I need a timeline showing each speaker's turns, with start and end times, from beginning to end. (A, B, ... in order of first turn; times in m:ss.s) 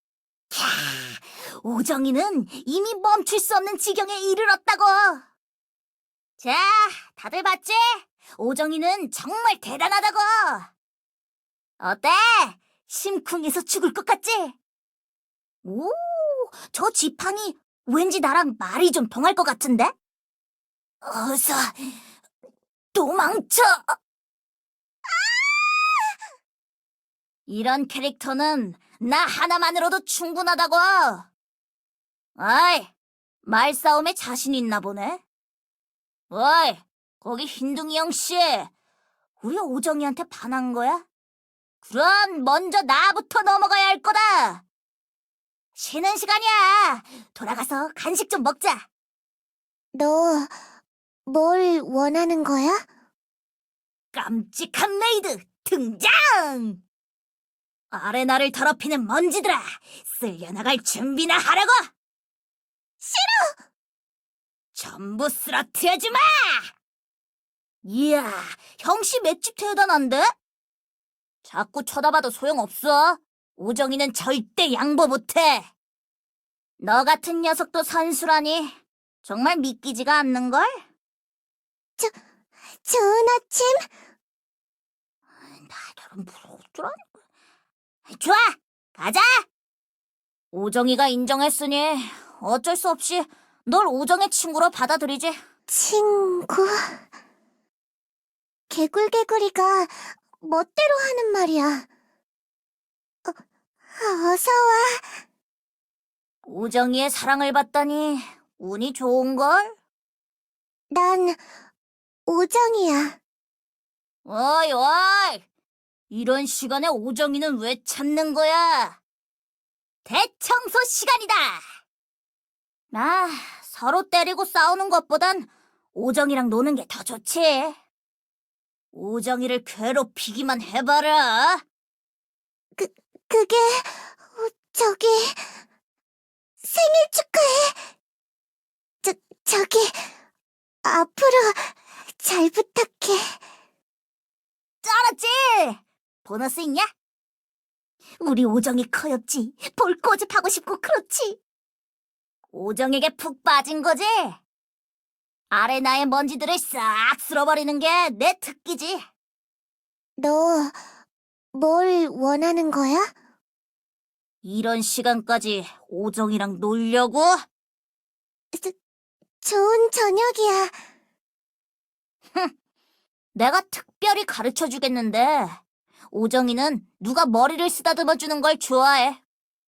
0:00.5-0:05.2 A
0:06.4-0:10.7 A
0:11.8-0:14.6 A
0:15.6-0:19.9 A
0:21.0-0:21.9 A
0:22.9-0:23.9 A
0:27.5-0:31.3 A
0:32.4-0:32.9 A
0:33.4-0:35.2 A
0:36.3-0:38.7 A
0:39.4-0:41.0 A
0:41.8-0:44.6 A
0:45.8-0:48.9 A
0:49.9-0:50.6 B
0:51.3-0:52.8 B
0:54.1-0:56.8 A
0:57.9-1:01.8 A
1:03.0-1:03.6 B
1:04.7-1:06.7 A
1:07.8-1:10.3 A
1:11.4-1:15.7 A
1:16.8-1:20.7 A
1:22.8-1:23.9 B
1:25.7-1:27.0 A
1:28.1-1:29.3 A
1:30.5-1:35.4 A
1:35.7-1:37.0 B
1:38.7-1:41.9 B
1:43.9-1:45.1 B
1:46.4-1:49.8 A
1:50.9-1:51.4 B
1:52.3-1:53.2 B
1:54.2-1:55.4 A
1:56.1-1:59.0 A
2:00.0-2:01.6 A
2:02.9-2:07.8 A
2:08.9-2:11.6 A
2:12.8-2:15.5 B
2:16.6-2:17.9 B
2:19.0-2:20.1 B
2:20.8-2:23.4 B
2:24.8-2:26.9 A
2:28.2-2:31.4 A
2:32.5-2:34.4 A
2:35.5-2:39.0 A
2:40.2-2:40.8 B
2:41.5-2:43.1 B
2:44.4-2:47.3 A
2:49.4-2:50.8 B
2:53.4-2:55.6 A
2:56.1-2:59.2 A